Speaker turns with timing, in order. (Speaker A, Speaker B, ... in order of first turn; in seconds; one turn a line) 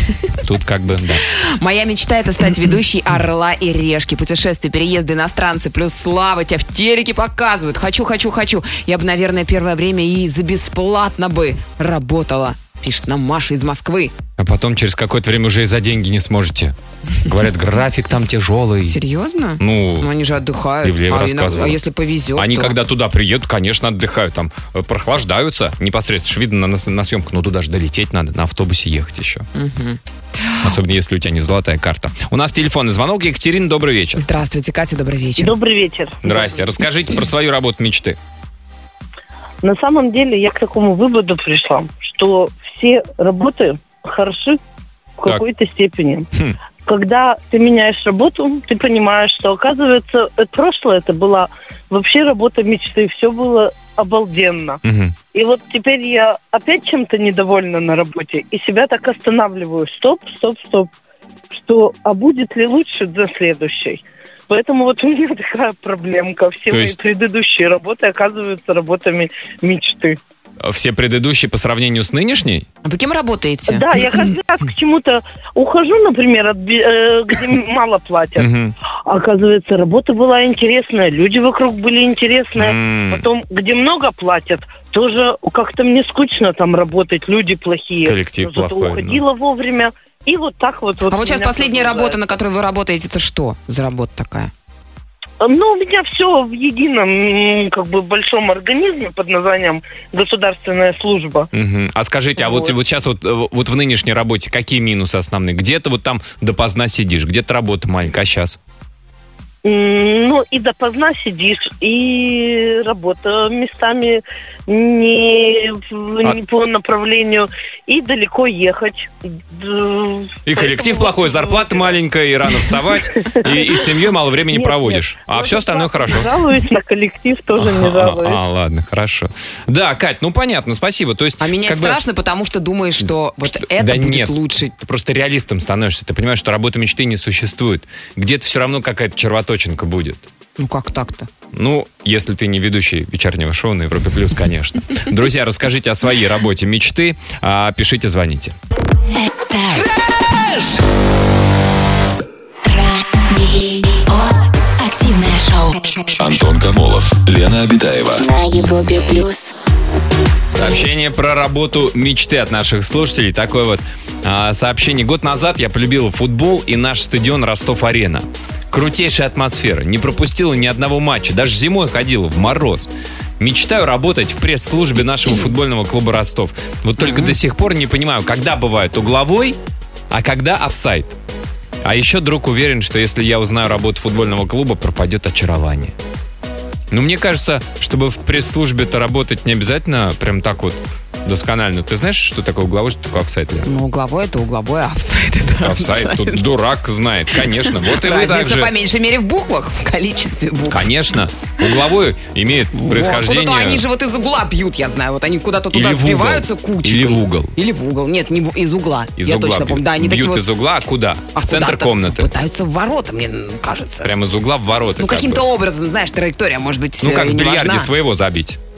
Speaker A: 0.3-1.2
Speaker B: 1.3-14.1
Speaker A: 14.4-19.0
Speaker B: 18.9-22.8
Speaker A: 19.6-20.1
Speaker A: 20.8-21.8
Speaker A: 22.3-29.4
Speaker B: 29.5-30.7
Speaker A: 30.6-34.2
Speaker B: 34.2-35.5
Speaker C: 35.4-36.4
Speaker A: 36.2-38.2
Speaker C: 39.6-44.6
Speaker C: 45.2-46.3
Speaker C: 46.8-54.8
Speaker A: 54.8-55.1
Speaker C: 55.3-60.9
Speaker C: 61.5-70.2
Speaker A: 66.7-67.0
Speaker A: 70.6-72.7
Speaker B: 72.8-74.0
Speaker C: 73.7-78.5
Speaker A: 78.3-78.7
Speaker C: 79.0-92.2
Speaker A: 82.5-83.2
Speaker A: 88.0-89.2
Speaker B: 91.1-94.5
Speaker C: 95.4-101.5
Speaker A: 101.5-108.6
Speaker C: 102.4-102.7
Speaker C: 109.6-121.9
Speaker A: 120.5-126.3
Speaker C: 122.6-123.9
Speaker C: 124.5-128.4
Speaker A: 127.6-132.0
Speaker B: 131.4-134.7
Speaker A: 133.4-140.3
Speaker B: 140.6-141.3
Speaker A: 141.5-148.5
Speaker D: 149.4-149.9
Speaker D: 152.6-156.4
Speaker E: 156.2-158.2
Speaker D: 158.2-159.6
Speaker A: 160.5-179.6
Speaker B: 177.0-177.3
Speaker A: 180.1-181.2
Speaker A: 181.8-185.9
Speaker A: 186.9-193.7
Speaker B: 193.6-196.4
Speaker A: 195.6-198.7
Speaker B: 197.3-200.9
Speaker A: 200.7-203.8
Speaker B: 202.7-210.5
Speaker A: 205.7-207.5
Speaker A: 209.2-212.3
Speaker B: 211.3-214.1
Speaker A: 214.0-215.4
Speaker B: 215.0-217.9
Speaker A: 217.0-218.6